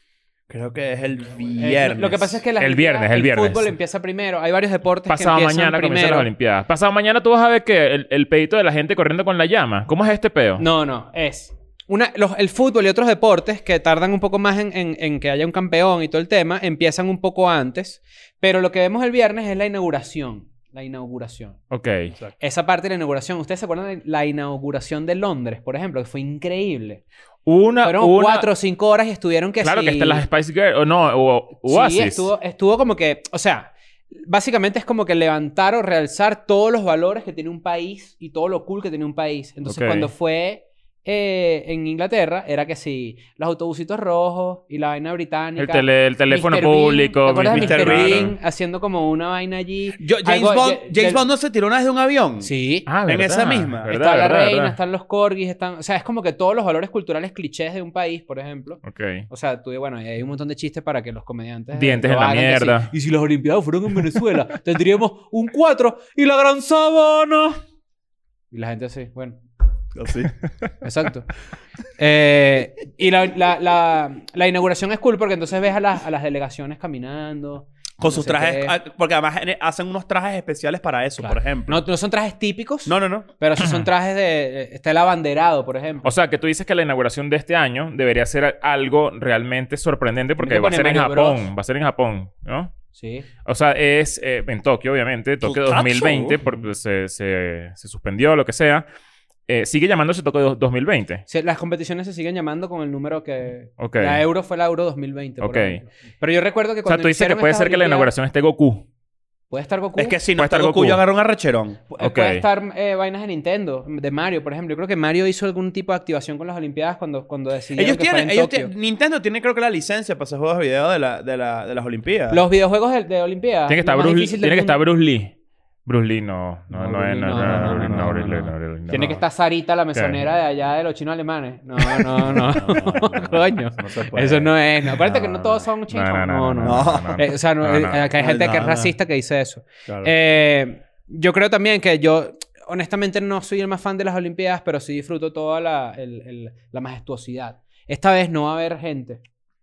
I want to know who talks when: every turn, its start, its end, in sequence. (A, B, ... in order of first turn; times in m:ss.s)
0:00.5-0:02.4 A
0:01.6-0:06.3 B
0:02.6-0:03.7 C
0:05.1-0:10.6 C
0:10.6-0:21.6 B
0:21.7-0:22.1 C
0:22.4-0:27.0 B
0:27.4-0:28.5 C
0:27.8-0:30.2 B
0:29.6-0:32.3 C
0:31.6-0:51.2 B
0:39.6-0:40.1 C
0:45.6-0:48.3 C
0:47.5-0:48.3 A
0:50.0-0:52.5 A
0:52.4-0:52.9 B
0:52.8-0:54.8 C
0:53.0-0:53.9 A
0:53.9-1:07.6 B
0:58.8-0:59.3 C
1:01.7-1:02.9 C
1:08.5-1:09.4 B
1:09.9-1:10.3 A
1:10.8-1:11.3 B
1:12.0-1:18.8 B
1:18.0-1:21.8 A
1:21.2-1:26.1 B
1:22.8-1:23.3 A
1:23.6-1:23.8 C
1:26.0-1:32.7 C
1:30.4-1:31.5 B
1:32.9-1:33.3 B
1:33.4-1:38.8 C
1:35.4-1:36.4 A
1:39.5-1:41.2 C
1:41.3-1:48.1 B
1:43.8-1:44.2 C
1:45.4-1:45.8 C
1:46.8-1:48.8 C
1:49.5-1:50.2 B
1:50.0-1:51.9 A
1:50.4-1:51.0 C
1:52.0-1:58.7 B
1:52.0-1:52.4 C
1:57.7-2:02.4 A
2:02.3-2:04.8 B
2:03.7-2:05.3 C
2:05.8-2:09.2 C
2:06.7-2:29.2 B
2:07.3-2:08.0 A
2:09.9-2:10.2 C
2:12.4-2:14.5 A
2:15.0-2:18.1 C
2:16.6-2:17.2 A
2:18.2-2:18.9 A
2:19.9-2:20.1 A